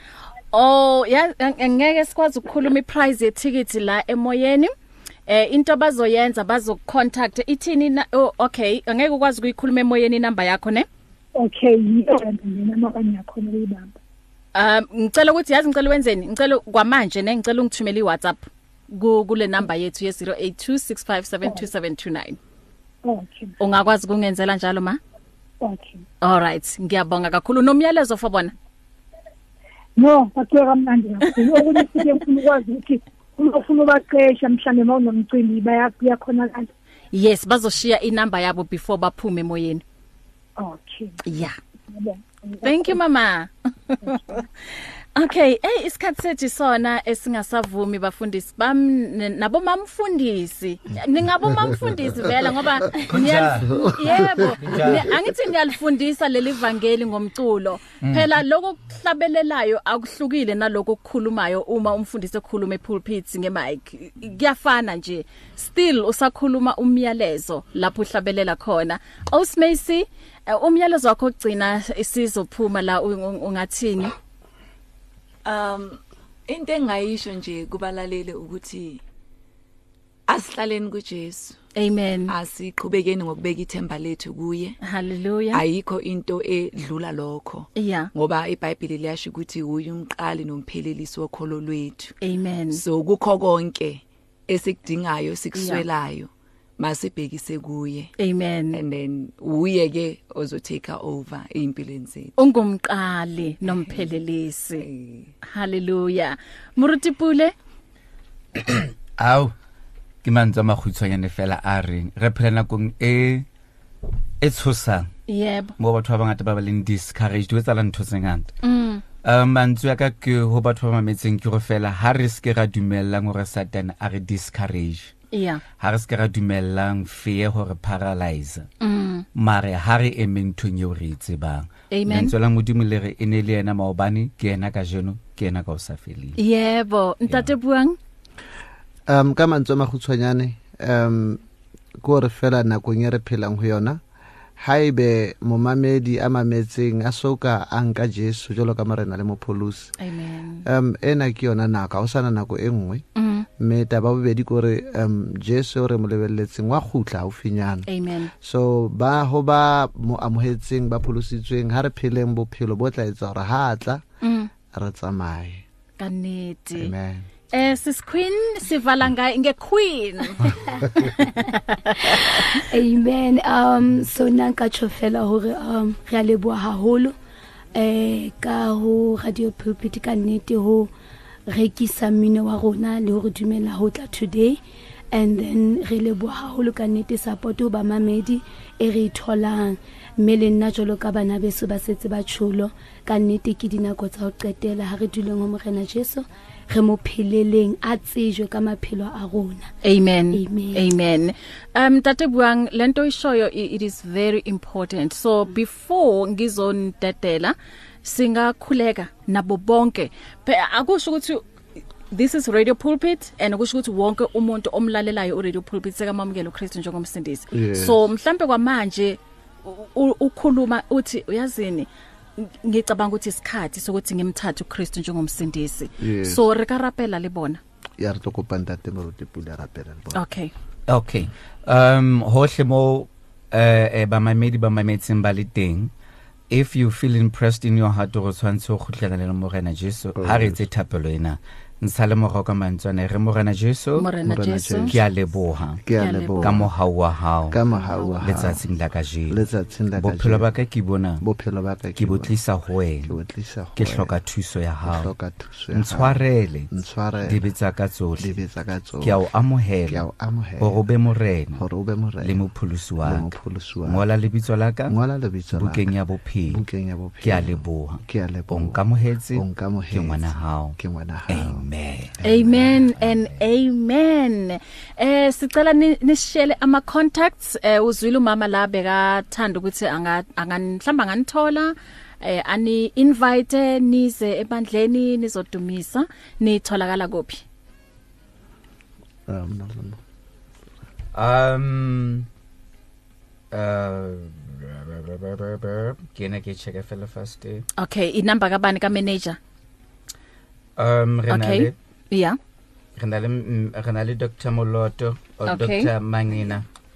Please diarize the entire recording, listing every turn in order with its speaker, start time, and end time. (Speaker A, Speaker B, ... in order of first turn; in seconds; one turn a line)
Speaker A: 0.5-4.7
Speaker A: 5.3-10.9
Speaker B: 11.4-14.0
Speaker A: 14.6-22.4
Speaker B: 23.1-23.5
Speaker A: 23.6-25.0
Speaker B: 25.6-26.0
Speaker A: 26.2-28.5
Speaker B: 30.0-36.7
Speaker A: 37.1-39.8
Speaker B: 40.6-41.2
Speaker A: 41.2-41.6
Speaker B: 41.9-43.0
Speaker A: 42.6-44.5
Speaker A: 45.1-74.1
Speaker C: 53.0-55.2
Speaker C: 58.0-58.3
Speaker D: 75.5-79.0
Speaker D: 80.3-81.6
Speaker A: 81.8-82.3
Speaker D: 82.3-84.8
Speaker A: 84.8-85.6
Speaker D: 85.5-92.2
Speaker A: 87.8-88.1
Speaker A: 92.2-92.8
Speaker D: 92.7-98.1
Speaker A: 95.5-95.8
Speaker A: 98.2-98.8
Speaker D: 98.7-102.4
Speaker A: 102.4-104.8
Speaker D: 104.8-105.3
Speaker A: 105.5-107.5
Speaker C: 108.7-109.5
Speaker C: 110.2-113.5
Speaker C: 114.4-115.1
Speaker A: 115.3-115.7
Speaker C: 115.8-118.5
Speaker A: 118.6-119.0
Speaker C: 119.2-125.1
Speaker A: 125.3-125.6
Speaker C: 125.8-128.7
Speaker A: 128.8-129.3
Speaker C: 129.3-136.4
Speaker A: 131.9-132.3
Speaker A: 136.4-138.0
Speaker C: 137.3-137.5
Speaker E: 139.1-141.4
Speaker E: 142.0-144.0
Speaker E: 144.6-149.9
Speaker A: 150.0-150.7
Speaker E: 150.7-153.1
Speaker A: 153.2-153.5
Speaker E: 153.6-157.9
Speaker A: 157.9-158.3
Speaker E: 158.4-164.0
Speaker A: 164.2-164.5
Speaker E: 164.7-165.6
Speaker A: 166.0-166.9
Speaker E: 166.8-167.3
Speaker A: 167.5-172.2
Speaker F: 170.8-171.5
Speaker F: 172.0-177.2
Speaker F: 177.8-180.9
Speaker F: 181.5-184.6
Speaker F: 185.1-199.7
Speaker A: 199.8-211.4
Speaker F: 200.3-200.9
Speaker A: 212.1-227.6
Speaker E: 217.5-218.0
Speaker E: 226.0-226.4
Speaker E: 228.0-230.2
Speaker A: 230.2-230.5
Speaker C: 230.9-235.9
Speaker C: 236.5-244.1
Speaker E: 240.2-240.6
Speaker A: 244.0-244.9
Speaker E: 244.2-245.0
Speaker C: 244.9-245.8
Speaker E: 245.8-246.7
Speaker A: 246.0-246.6
Speaker C: 246.4-247.6
Speaker E: 247.5-248.6
Speaker C: 248.2-249.4
Speaker E: 249.3-250.5
Speaker C: 250.0-251.2
Speaker E: 251.2-252.4
Speaker C: 252.0-253.2
Speaker E: 253.0-254.2
Speaker C: 253.8-255.1
Speaker E: 254.8-257.4
Speaker C: 255.7-256.7
Speaker C: 257.2-258.4
Speaker E: 258.2-259.2
Speaker C: 259.0-260.1
Speaker E: 259.9-260.8
Speaker C: 260.6-261.6
Speaker E: 261.6-262.4
Speaker C: 262.2-263.3
Speaker E: 263.0-264.0
Speaker C: 263.9-265.0
Speaker E: 264.9-265.9
Speaker C: 265.5-266.6
Speaker E: 266.5-268.8
Speaker C: 267.2-273.4
Speaker E: 269.3-271.7
Speaker E: 272.2-272.6
Speaker A: 272.2-287.4
Speaker E: 289.3-290.0
Speaker C: 291.1-292.3
Speaker C: 293.5-297.6
Speaker A: 297.8-299.4
Speaker C: 300.8-301.8
Speaker A: 301.3-302.4
Speaker C: 303.0-306.7
Speaker A: 305.5-305.9